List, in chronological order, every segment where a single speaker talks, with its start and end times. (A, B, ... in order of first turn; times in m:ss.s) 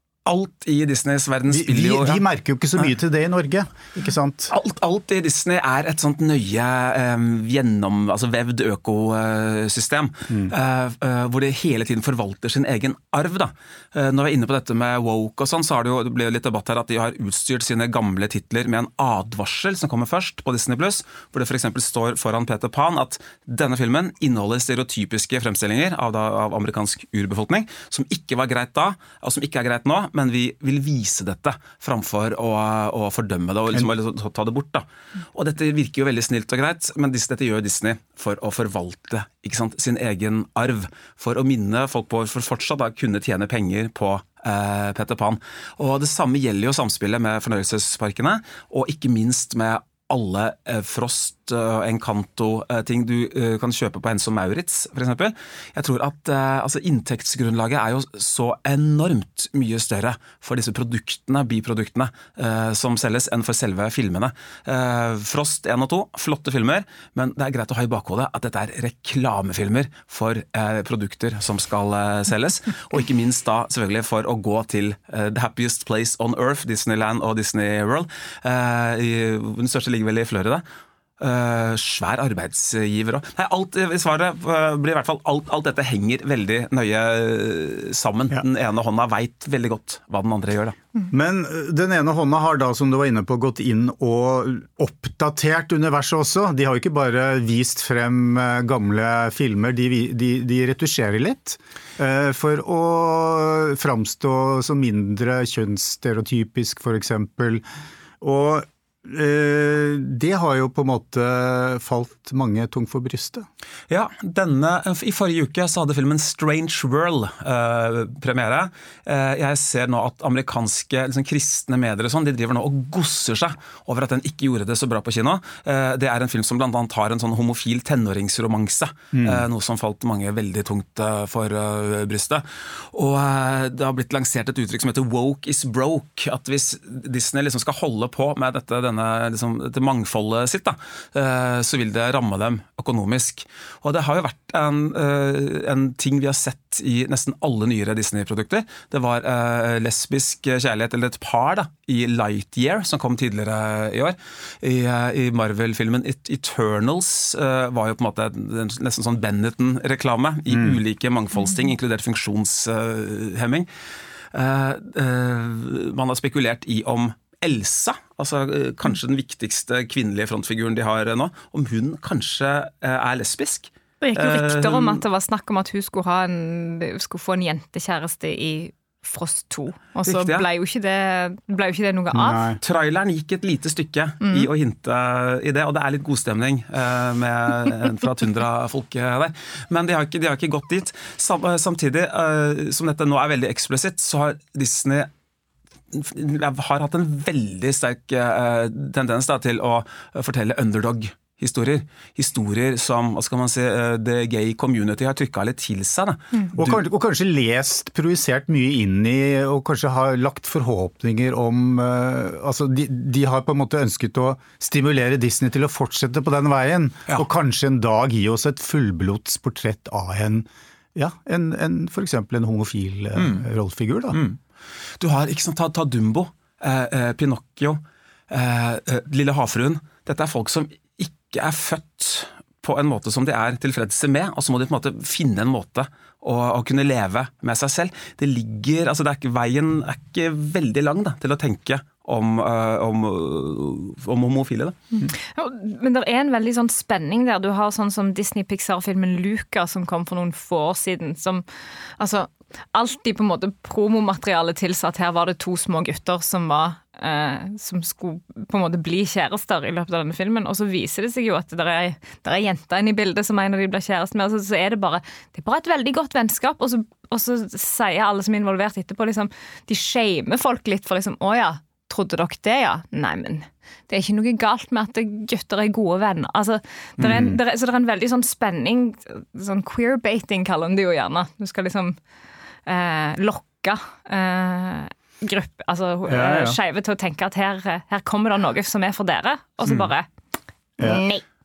0:00.2-0:02.2 A
0:01.5-0:04.5 B
0:04.5-1:20.6 A
1:21.2-1:30.8 A
1:31.1-1:47.6 B
1:48.2-1:53.4 B
1:53.9-2:43.7 A
2:09.1-2:09.4 B
2:40.5-2:40.8 B
2:44.3-2:55.0 A
2:54.0-3:02.6 C
3:00.0-3:00.4 A
3:02.1-3:02.6 B
3:02.6-3:15.1 A
3:04.2-3:04.5 C
3:15.9-3:26.8 A
3:26.5-3:44.2 B
3:43.2-3:43.4 A
3:44.1-3:44.4 A
3:45.0-4:04.8 A
4:05.1-4:42.0 C
4:37.0-4:37.4 B
4:42.7-4:50.1 C
4:46.1-4:46.6 B
4:50.8-4:51.2 C